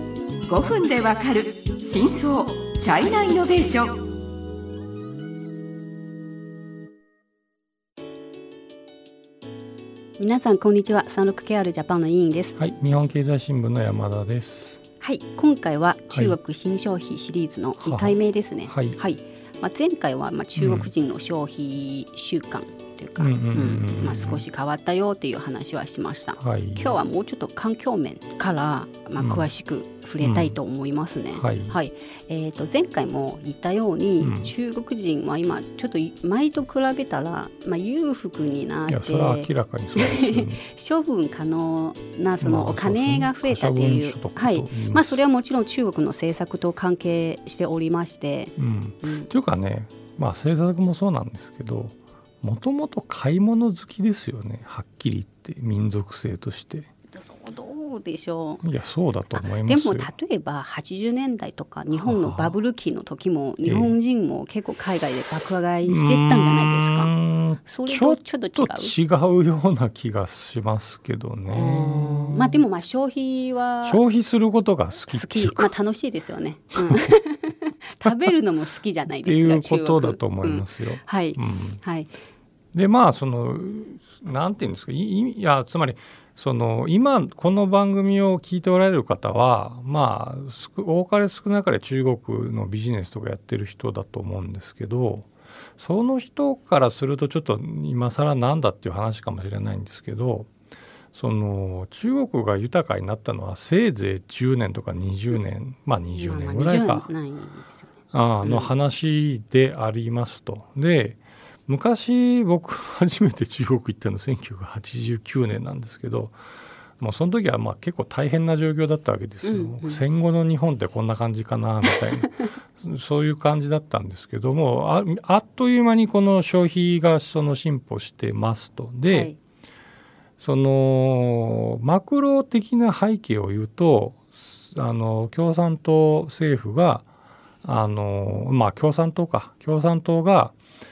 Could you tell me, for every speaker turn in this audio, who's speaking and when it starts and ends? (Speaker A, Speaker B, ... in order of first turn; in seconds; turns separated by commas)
Speaker A: 0.5-4.0, Speaker B: 10.2-12.6, Speaker C: 12.6-14.8, Speaker B: 15.0-49.3, Speaker C: 17.8-19.0, Speaker C: 20.6-20.9, Speaker C: 23.2-24.4, Speaker C: 26.4-26.9, Speaker C: 29.2-29.5, Speaker C: 30.2-30.6, Speaker C: 31.4-31.8, Speaker C: 34.2-34.5, Speaker C: 38.9-40.6, Speaker C: 42.4-45.2, Speaker C: 48.6-56.9, Speaker B: 57.1-58.6, Speaker C: 58.6-60.1, Speaker B: 59.3-67.1, Speaker C: 61.9-62.5, Speaker C: 63.6-64.0, Speaker C: 65.8-72.6, Speaker B: 67.6-68.9, Speaker B: 71.5-74.0, Speaker C: 73.8-75.7, Speaker B: 75.1-82.1, Speaker C: 76.8-77.1, Speaker C: 79.2-81.8, Speaker C: 82.7-100.5, Speaker C: 101.1-107.1, Speaker B: 106.1-108.7, Speaker C: 108.1-116.4, Speaker C: 117.0-129.3, Speaker B: 119.4-120.0, Speaker B: 129.1-129.4, Speaker C: 130.4-137.0, Speaker C: 137.6-140.5